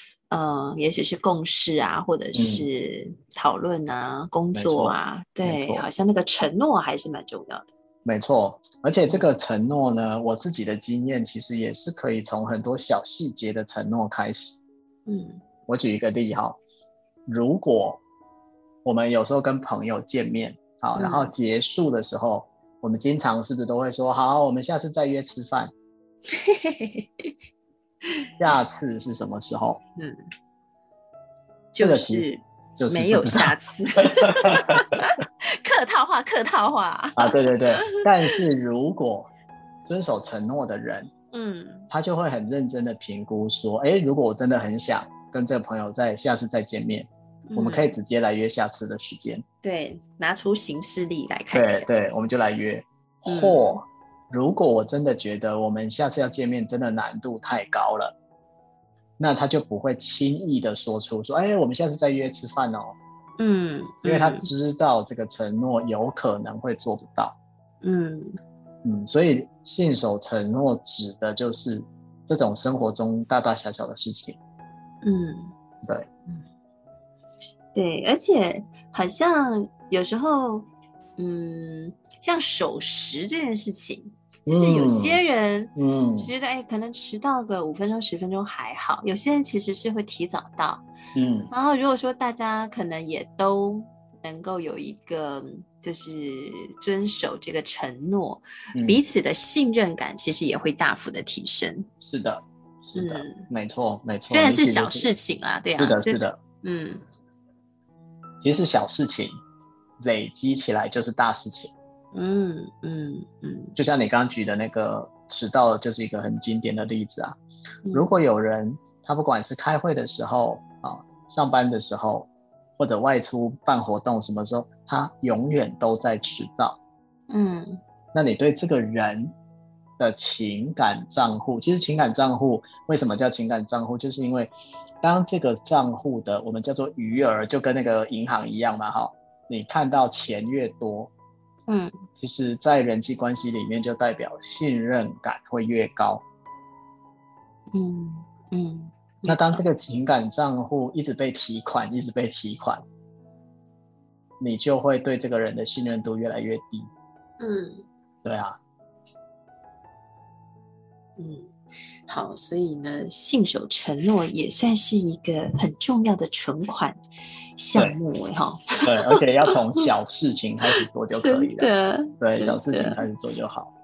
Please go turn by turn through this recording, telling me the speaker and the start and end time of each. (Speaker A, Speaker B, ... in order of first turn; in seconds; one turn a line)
Speaker A: 0.3-7.7
Speaker B: 2.4-2.7
Speaker B: 4.5-5.9
Speaker B: 8.1-14.6
Speaker A: 15.1-15.4
Speaker B: 15.7-16.6
Speaker B: 17.3-18.0
Speaker B: 18.9-25.7
Speaker A: 20.9-21.3
Speaker A: 26.3-27.3
Speaker A: 28.1-28.3
Speaker B: 28.4-29.8
Speaker A: 30.0-30.2
Speaker A: 31.7-38.4
Speaker B: 31.8-35.0
Speaker B: 37.2-39.3
Speaker B: 39.9-41.1
Speaker A: 41.3-41.9
Speaker B: 41.9-49.4
Speaker A: 47.5-47.9
Speaker A: 49.6-51.9
Speaker B: 51.5-58.1
Speaker A: 53.3-53.8
Speaker B: 59.2-63.0
Speaker A: 63.4-64.5
Speaker B: 64.0-67.4
Speaker A: 67.8-68.4
Speaker B: 68.8-74.4
Speaker A: 75.0-75.5
Speaker A: 77.7-90.8
Speaker B: 84.5-85.2
Speaker B: 85.8-86.3
Speaker B: 91.2-91.5
Speaker A: 91.5-101.9
Speaker B: 98.8-99.0
Speaker B: 102.0-105.1
Speaker A: 103.0-103.5
Speaker A: 104.3-107.0
Speaker B: 105.7-106.4
Speaker B: 108.4-109.3
Speaker B: 110.0-111.7
Speaker A: 112.1-113.8
Speaker B: 113.8-117.4
Speaker B: 117.9-126.8
Speaker A: 127.3-127.8
Speaker B: 128.1-129.3
Speaker B: 130.0-141.1
Speaker A: 141.7-141.9
Speaker B: 142.2-146.2
Speaker A: 147.7-149.6
Speaker B: 149.3-152.8
Speaker B: 154.4-156.9
Speaker A: 157.4-157.8
Speaker B: 158.2-158.6
Speaker A: 161.2-161.5
Speaker A: 162.1-167.0
Speaker A: 167.6-169.9
Speaker B: 168.8-173.7
Speaker A: 170.7-173.0